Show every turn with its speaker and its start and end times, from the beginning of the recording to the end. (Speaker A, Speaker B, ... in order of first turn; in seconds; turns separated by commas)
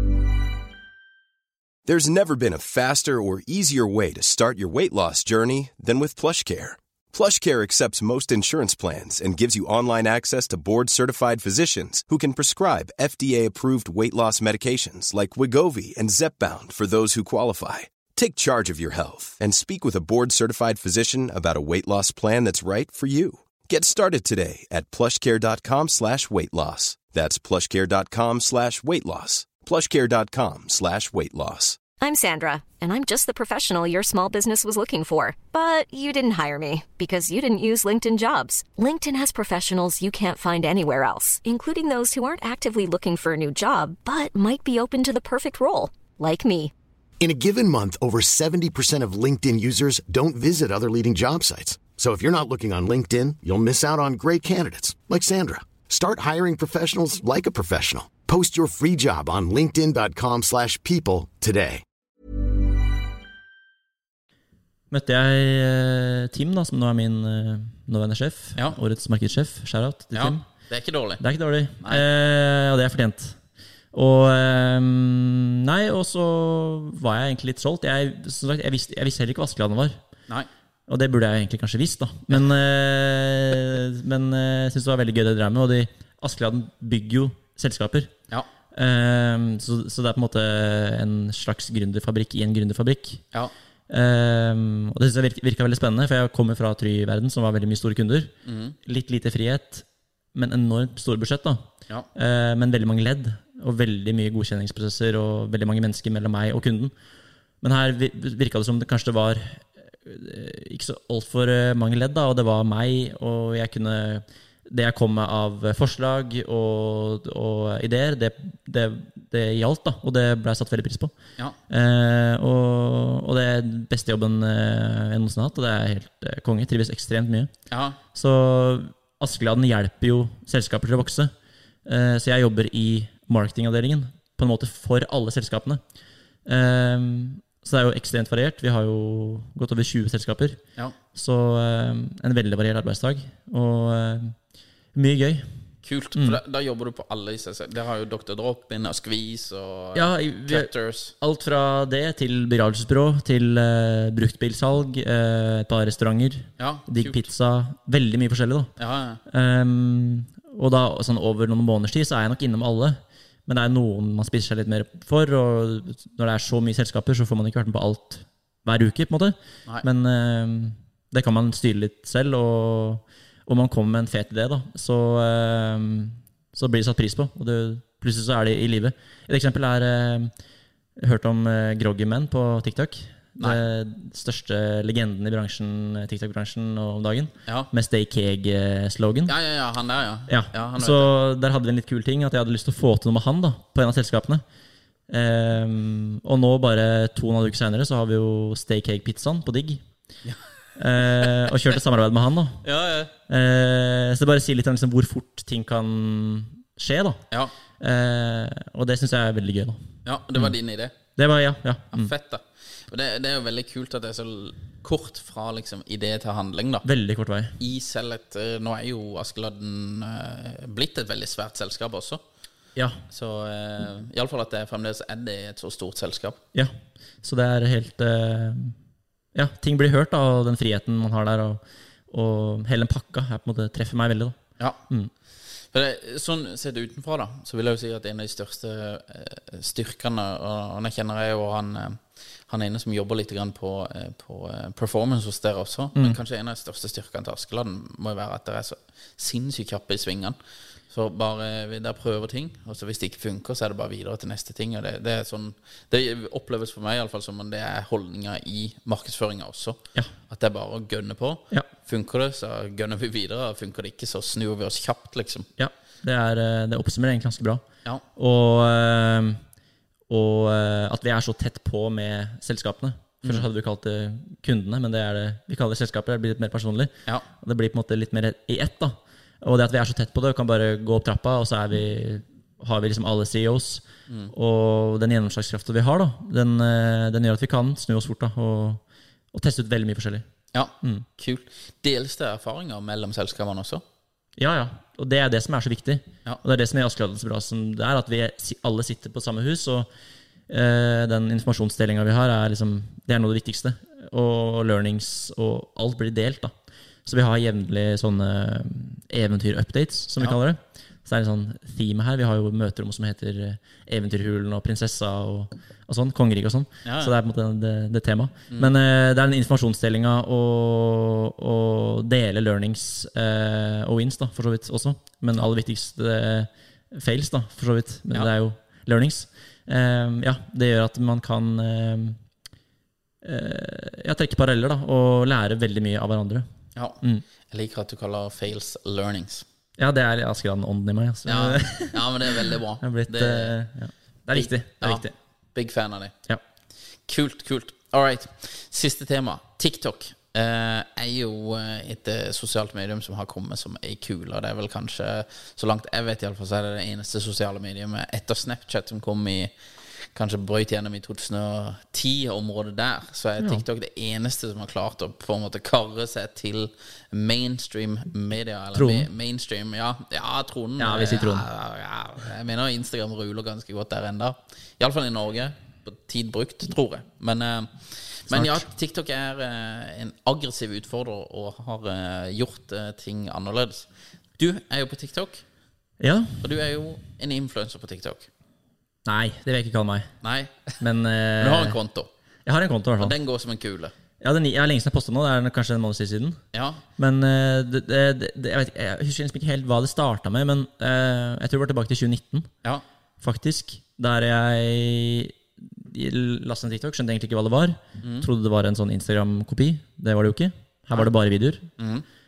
Speaker A: 1.9-31.8, Speaker B: 32.0-46.7, Speaker C: 47.2-61.8, Speaker D: 64.9-70.4, Speaker E: 70.1-71.2, Speaker D: 71.2-73.4, Speaker D: 73.9-80.0, Speaker D: 80.9-88.1, Speaker D: 88.7-93.2, Speaker D: 93.9-98.3, Speaker E: 98.4-98.8, Speaker D: 98.8-106.9, Speaker D: 107.6-121.1, Speaker D: 121.7-127.5, Speaker E: 127.7-128.0, Speaker D: 128.1-131.3, Speaker D: 131.8-135.8, Speaker D: 136.4-140.6, Speaker D: 141.1-144.3, Speaker D: 144.9-145.5, Speaker E: 145.8-151.1, Speaker D: 149.9-158.7, Speaker E: 156.6-157.3, Speaker E: 158.8-159.2, Speaker D: 159.2-180.3, Speaker D: 181.0-189.3, Speaker E: 189.3-191.1, Speaker D: 190.3-194.4, Speaker D: 195.1-199.8, Speaker D: 200.8-202.6, Speaker E: 202.6-203.1, Speaker D: 203.3-207.2, Speaker D: 207.8-209.8, Speaker E: 210.0-210.9, Speaker D: 211.2-212.1, Speaker E: 211.9-216.8, Speaker D: 216.8-217.6, Speaker E: 217.6-222.2, Speaker D: 222.8-223.0, Speaker E: 223.1-226.4, Speaker D: 226.5-228.8, Speaker D: 229.3-235.1, Speaker E: 235.7-250.4, Speaker E: 250.9-265.5, Speaker D: 265.6-267.6, Speaker D: 268.1-269.4, Speaker D: 270.1-288.8, Speaker D: 289.3-290.2, Speaker E: 290.5-293.8, Speaker D: 294.4-299.9, Speaker D: 300.5-306.5, Speaker D: 307.1-332.2, Speaker E: 316.8-317.1, Speaker D: 333.2-336.4, Speaker E: 336.7-339.4, Speaker D: 339.8-345.1, Speaker E: 341.2-343.6, Speaker E: 344.3-346.1, Speaker E: 347.1-359.5, Speaker E: 360.1-383.9, Speaker D: 368.7-369.1, Speaker D: 370.8-371.5, Speaker D: 378.3-378.7, Speaker E: 384.4-385.4, Speaker D: 386.0-386.4, Speaker E: 386.4-388.3, Speaker D: 389.0-390.1, Speaker E: 390.2-390.8, Speaker D: 390.8-391.8, Speaker E: 391.4-392.1, Speaker D: 392.4-393.1, Speaker E: 393.0-393.9, Speaker D: 394.2-396.4, Speaker E: 396.5-396.8, Speaker D: 397.0-402.5, Speaker D: 403.2-411.7, Speaker E: 408.0-408.2, Speaker E: 411.8-412.0